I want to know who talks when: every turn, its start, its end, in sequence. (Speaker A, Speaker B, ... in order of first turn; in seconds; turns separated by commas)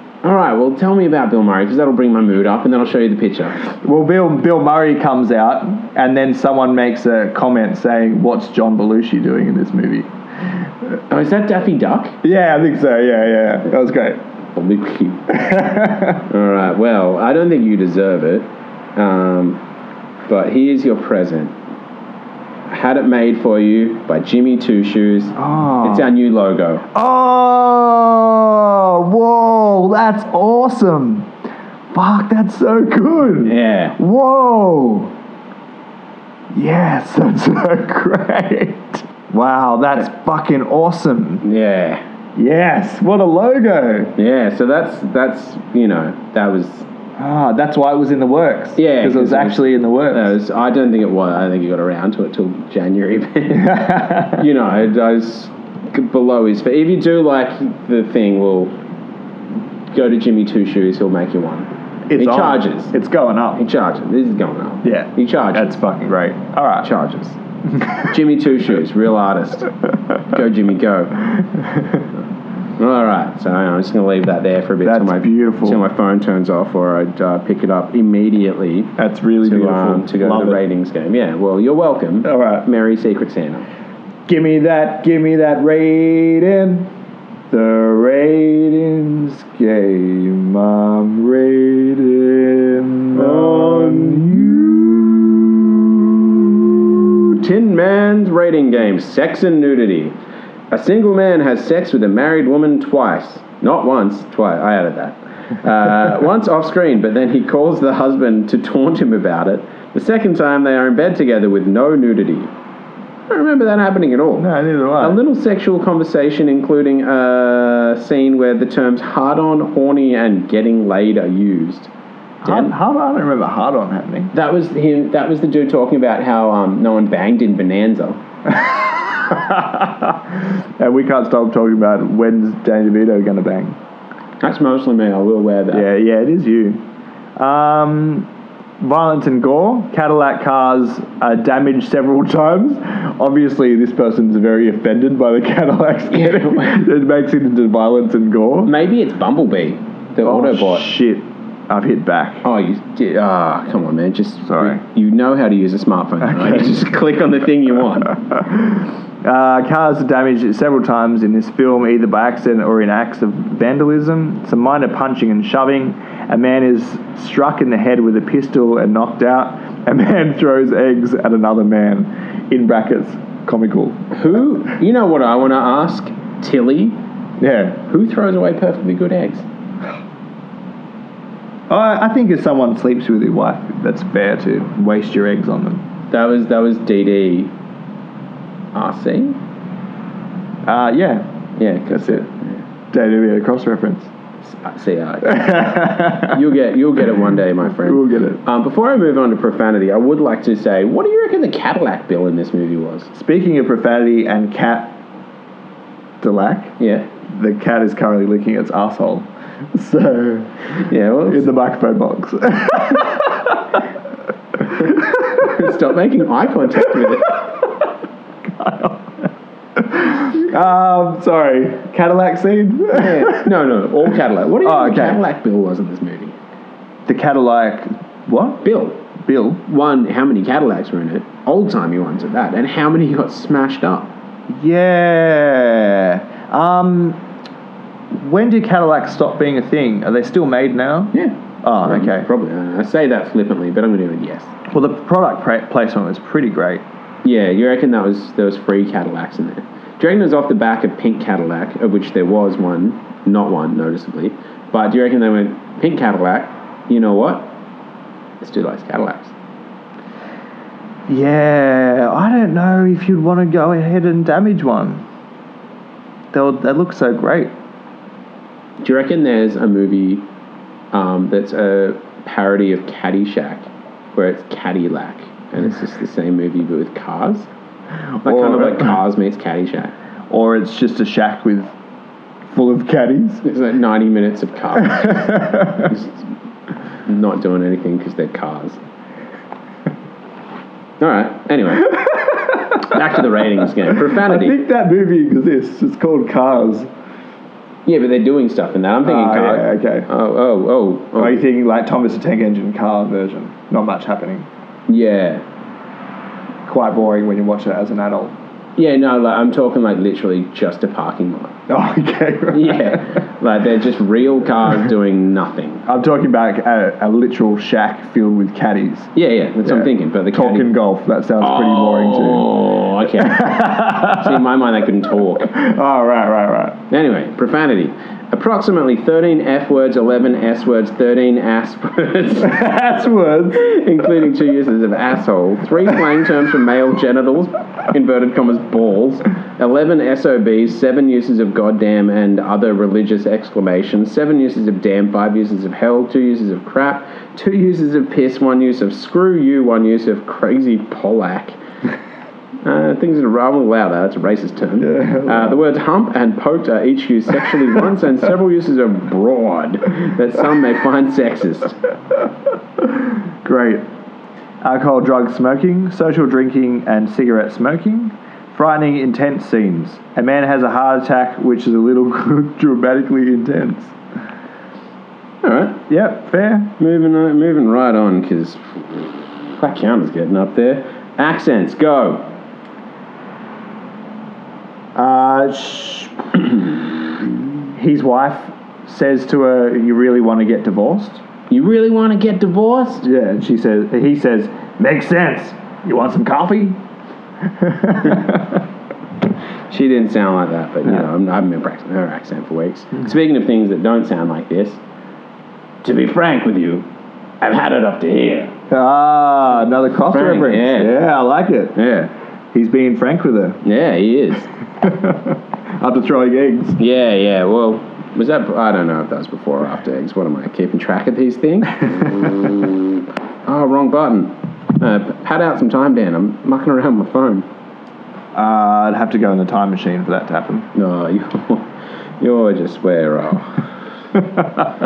Speaker A: 0.2-3.6, Speaker B: 3.8-10.1, Speaker A: 11.1-12.2, Speaker B: 12.2-14.2, Speaker A: 14.6-15.2, Speaker B: 15.3-16.3, Speaker A: 16.3-19.6, Speaker A: 20.3-21.5, Speaker A: 22.7-26.8, Speaker B: 25.4-26.1, Speaker B: 26.9-31.3, Speaker B: 31.9-35.1, Speaker A: 33.4-34.0, Speaker B: 36.5-41.4, Speaker A: 41.4-42.0, Speaker B: 42.4-44.1, Speaker A: 44.2-46.9, Speaker B: 47.2-50.3, Speaker A: 48.8-58.7, Speaker B: 53.5-54.5, Speaker A: 59.9-62.9, Speaker B: 62.1-63.6, Speaker A: 63.5-65.7, Speaker B: 64.8-66.9, Speaker A: 66.8-67.4, Speaker B: 67.8-68.0, Speaker A: 67.9-71.4, Speaker B: 71.4-72.0, Speaker A: 72.8-83.7, Speaker B: 74.8-75.8, Speaker B: 79.0-80.6, Speaker B: 82.2-82.7, Speaker B: 84.3-86.9, Speaker B: 87.5-97.3, Speaker A: 93.1-94.7, Speaker A: 97.3-100.2, Speaker A: 100.7-112.5, Speaker A: 113.3-121.9, Speaker B: 114.4-115.2, Speaker B: 122.4-124.3, Speaker A: 122.4-122.7, Speaker A: 124.3-128.2, Speaker B: 128.4-133.8, Speaker A: 134.4-135.8, Speaker B: 135.7-136.8, Speaker B: 137.4-138.3, Speaker B: 138.8-148.7, Speaker A: 146.1-146.8, Speaker A: 148.6-150.9, Speaker B: 150.2-152.4, Speaker A: 152.4-158.2, Speaker B: 154.5-154.8, Speaker B: 156.3-156.8, Speaker B: 158.1-174.1, Speaker A: 174.1-177.0, Speaker B: 177.4-177.8, Speaker A: 177.9-179.5, Speaker B: 181.7-185.8, Speaker A: 186.1-187.5, Speaker A: 188.7-189.4, Speaker B: 190.7-191.2, Speaker A: 191.6-192.6, Speaker B: 191.9-192.3, Speaker B: 192.9-194.1, Speaker A: 194.4-203.1, Speaker B: 195.2-196.4, Speaker B: 197.8-198.4, Speaker B: 203.1-204.9, Speaker B: 206.2-206.8, Speaker A: 206.8-207.1, Speaker B: 207.3-213.8, Speaker A: 210.7-211.5, Speaker B: 214.6-215.7, Speaker A: 214.8-217.3, Speaker B: 216.8-217.9, Speaker B: 218.4-223.6, Speaker A: 222.9-226.4, Speaker B: 224.6-225.2, Speaker B: 227.1-228.6, Speaker A: 228.6-229.0, Speaker B: 229.2-229.6, Speaker A: 229.7-234.1, Speaker B: 234.5-237.2, Speaker B: 238.1-241.1, Speaker A: 241.1-244.5, Speaker B: 241.6-242.3, Speaker B: 244.7-246.8, Speaker A: 247.2-257.5, Speaker A: 258.4-259.3, Speaker B: 261.1-265.0, Speaker B: 266.3-267.5, Speaker A: 268.8-270.2, Speaker A: 270.9-277.5, Speaker A: 278.2-279.9, Speaker B: 278.2-279.0, Speaker B: 280.3-281.7, Speaker B: 282.5-283.4, Speaker A: 283.4-286.2, Speaker B: 284.8-286.0, Speaker A: 287.1-288.8, Speaker A: 291.0-294.6, Speaker B: 291.9-293.0, Speaker B: 293.9-296.9, Speaker A: 297.8-301.4, Speaker B: 299.0-300.1, Speaker B: 301.1-304.5, Speaker A: 304.9-305.4, Speaker B: 306.6-308.3, Speaker A: 308.8-311.5, Speaker B: 311.7-313.1, Speaker A: 312.5-315.8, Speaker B: 315.9-319.1, Speaker A: 319.1-320.7, Speaker B: 319.6-322.6, Speaker A: 321.4-325.5, Speaker B: 323.2-324.4, Speaker B: 325.5-326.8, Speaker A: 326.9-332.6, Speaker B: 332.4-333.7, Speaker A: 333.5-351.6, Speaker A: 352.6-361.8, Speaker B: 354.8-355.6, Speaker B: 362.8-363.8, Speaker B: 364.6-373.9, Speaker A: 375.4-375.8, Speaker B: 375.9-376.7, Speaker A: 376.8-382.2, Speaker B: 384.9-386.7, Speaker B: 387.7-391.2, Speaker A: 391.5-393.1, Speaker B: 393.0-396.8, Speaker B: 397.4-398.6, Speaker A: 399.7-404.8, Speaker A: 405.8-406.9, Speaker A: 407.4-408.5, Speaker B: 408.7-411.7, Speaker A: 410.1-411.0, Speaker A: 411.7-412.1, Speaker B: 412.5-413.6, Speaker A: 413.6-414.5, Speaker B: 414.8-416.8, Speaker A: 416.8-427.5, Speaker B: 428.3-430.7, Speaker A: 430.7-433.7, Speaker B: 434.1-434.7